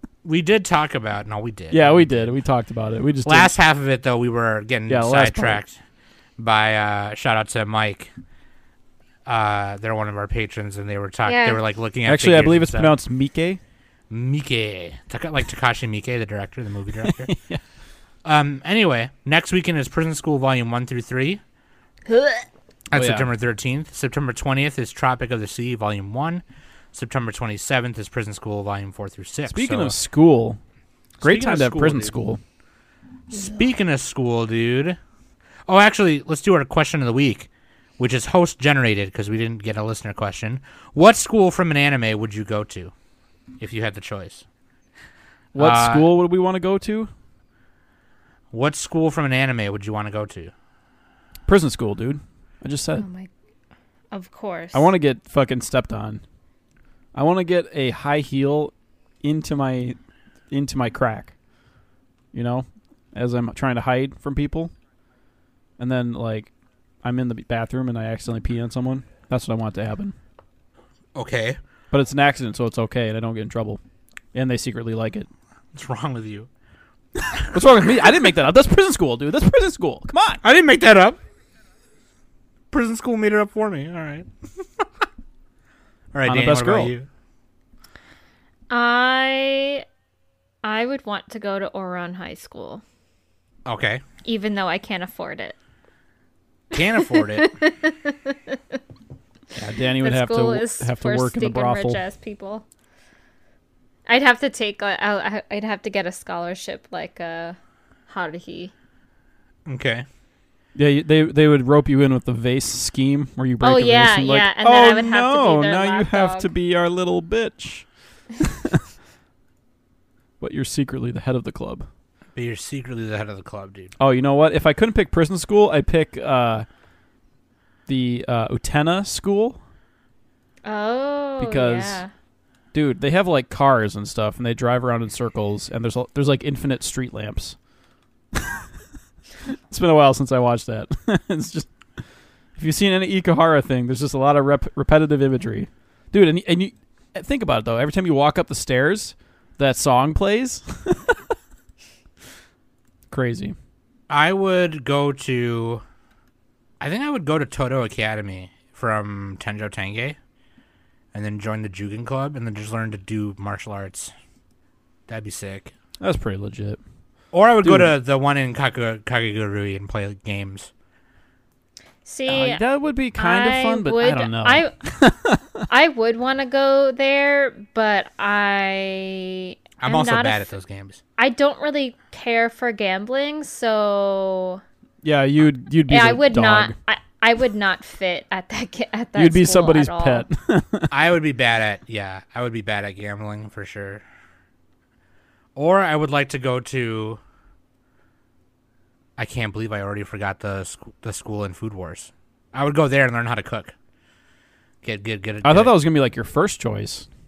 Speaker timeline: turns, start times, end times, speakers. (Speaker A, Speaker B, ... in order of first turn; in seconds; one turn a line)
Speaker A: 0.2-2.3
Speaker B: 1.7-3.5
Speaker A: 3.3-5.8
Speaker B: 4.9-5.6
Speaker A: 6.4-8.1
Speaker A: 9.3-12.9
Speaker C: 11.3-11.6
Speaker B: 12.1-13.6
Speaker A: 14.1-17.3
Speaker B: 17.1-17.6
Speaker A: 18.2-21.4
Speaker C: 22.1-22.4
Speaker A: 22.9-30.0
Speaker B: 22.9-23.3
Speaker B: 29.5-30.6
Speaker A: 31.2-32.1
Speaker B: 31.2-32.4
Speaker A: 33.3-35.0
Speaker A: 35.7-42.9
Speaker A: 43.6-44.5
Speaker B: 45.5-47.1
Speaker A: 45.6-46.1
Speaker A: 48.5-50.5
Speaker B: 51.5-53.0
Speaker C: 53.0-53.3
Speaker C: 54.1-54.9
Speaker B: 54.7-56.2
Speaker B: 57.1-60.0
Speaker B: 60.5-61.3
Speaker B: 62.3-64.7
Speaker B: 65.8-66.5
Speaker B: 67.0-70.2
Speaker A: 71.2-71.6
Speaker B: 71.9-73.8
Speaker B: 74.3-75.3
Speaker A: 75.7-76.5
Speaker A: 77.2-77.5
Speaker B: 77.5-80.4
Speaker A: 80.4-81.2
Speaker A: 82.7-85.0
Speaker A: 86.1-87.1
Speaker B: 86.3-86.9
Speaker C: 88.7-89.8
Speaker C: 90.6-92.8
Speaker A: 93.7-94.0
Speaker C: 94.2-95.5
Speaker A: 96.7-97.5
Speaker C: 96.8-98.6
Speaker B: 99.5-102.0
Speaker C: 100.0-102.7
Speaker C: 104.1-107.6
Speaker C: 108.1-108.7
Speaker A: 109.7-110.1
Speaker B: 110.8-117.9
Speaker C: 113.6-116.5
Speaker B: 118.4-118.8
Speaker B: 120.4-121.9
Speaker A: 122.3-123.9
Speaker B: 124.0-126.7
Speaker B: 127.9-129.6
Speaker C: 130.7-132.1
Speaker B: 131.4-132.0
Speaker B: 132.7-137.6
Speaker B: 138.4-138.6
Speaker B: 139.7-141.7
Speaker B: 142.6-151.2
Speaker B: 153.1-153.6
Speaker A: 154.1-155.8
Speaker A: 156.8-160.2
Speaker A: 161.1-164.1
Speaker A: 165.1-165.7
Speaker B: 166.0-166.8
Speaker A: 167.3-170.7
Speaker B: 167.6-167.9
Speaker C: 172.1-172.6
Speaker B: 172.3-175.7
Speaker C: 173.2-174.7
Speaker C: 175.7-180.5
Speaker A: 179.8-181.0
Speaker C: 181.2-184.6
Speaker B: 185.0-186.7
Speaker C: 185.9-190.3
Speaker B: 189.2-190.9
Speaker A: 190.9-194.0
Speaker A: 195.6-197.2
Speaker A: 199.2-203.8
Speaker A: 204.8-205.8
Speaker B: 205.4-207.1